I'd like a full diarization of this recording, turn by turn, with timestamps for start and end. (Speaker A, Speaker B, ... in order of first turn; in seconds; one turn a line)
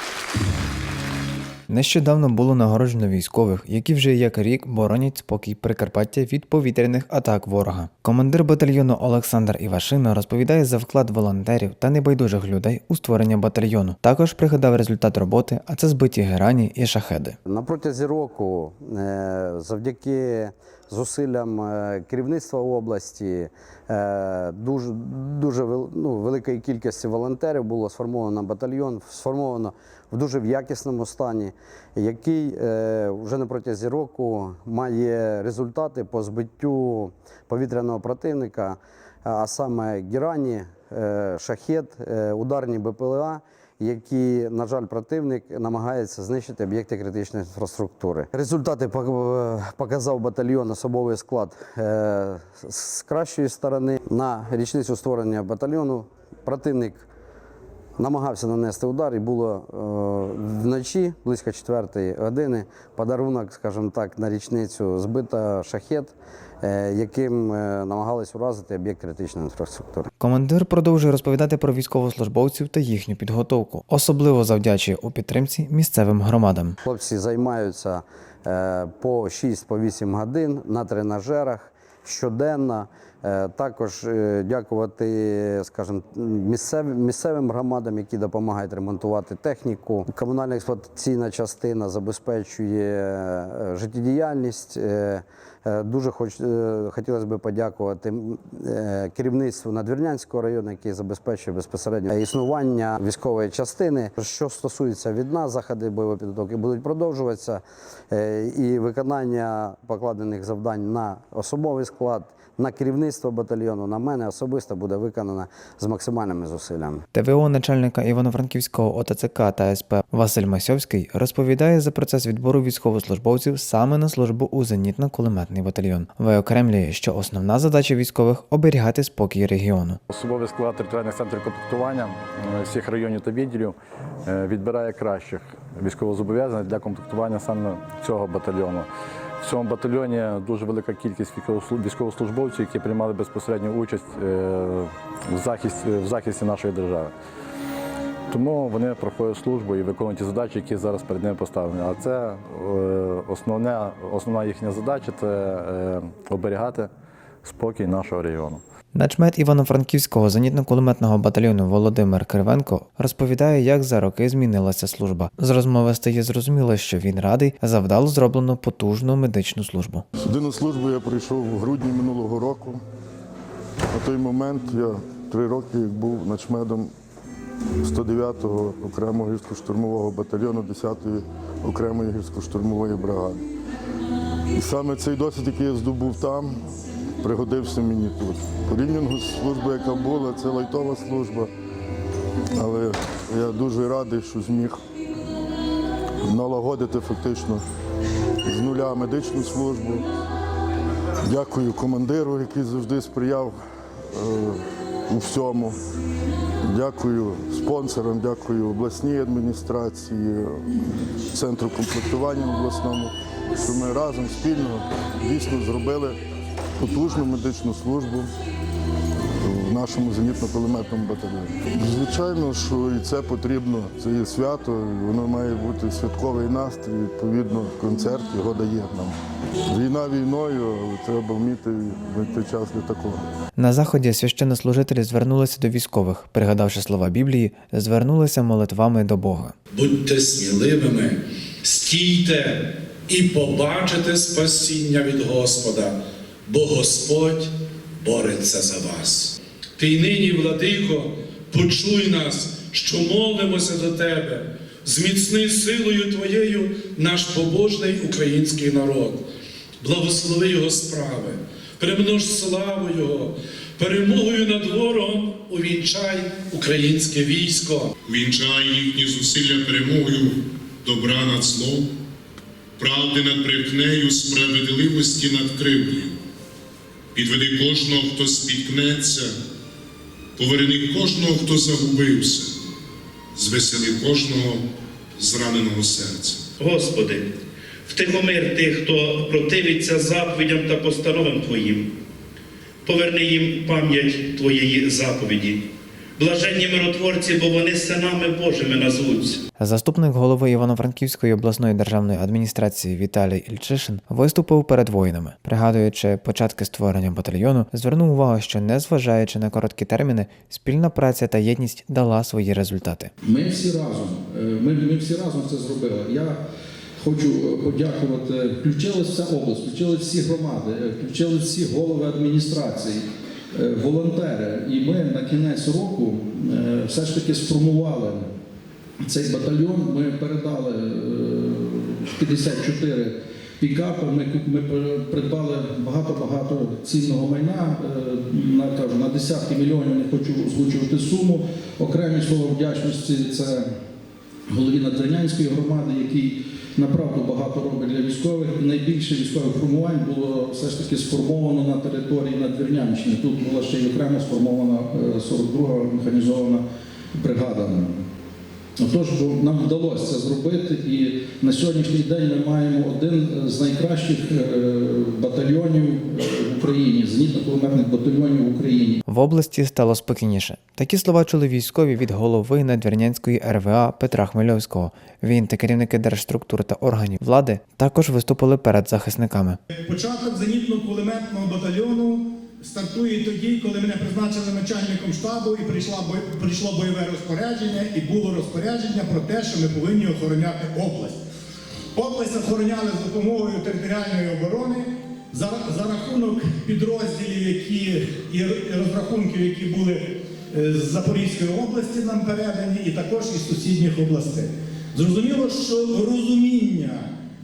Speaker A: 1.7-17.4
Speaker B: 17.5-57.1
Speaker B: 58.0-70.1
Speaker A: 70.2-76.8
Speaker B: 76.8-117.0
Speaker A: 117.1-130.0
Speaker C: 130.1-138.9
Speaker C: 139.4-147.2
Speaker C: 148.3-156.9
Speaker C: 157.4-158.6
Speaker A: 158.9-170.1
Speaker D: 170.2-172.8
Speaker D: 173.9-176.9
Speaker D: 177.8-183.4
Speaker D: 184.5-186.6
Speaker D: 187.2-191.5
Speaker D: 192.5-194.8
Speaker D: 196.2-197.6
Speaker D: 198.4-200.1
Speaker D: 201.2-203.6
Speaker D: 204.1-205.8
Speaker D: 206.7-210.7
Speaker D: 211.3-216.2
Speaker D: 216.8-218.3
Speaker D: 219.4-229.2
Speaker D: 229.7-233.2
Speaker A: 233.6-239.5
Speaker E: 239.7-259.3
Speaker E: 259.8-267.9
Speaker F: 268.1-271.9
Speaker F: 272.8-276.1
Speaker F: 277.1-279.4
Speaker F: 280.4-282.5
Speaker F: 283.3-284.6
Speaker F: 285.2-286.4
Speaker G: 286.6-287.3
Speaker G: 287.9-291.9
Speaker G: 292.8-299.4
Speaker A: 299.6-313.1
Speaker H: 313.2-316.4
Speaker H: 317.0-328.3
Speaker H: 329.0-343.7
Speaker H: 344.5-358.1
Speaker H: 358.8-369.0
Speaker A: 369.1-379.6
Speaker I: 379.7-391.2
Speaker I: 391.9-407.1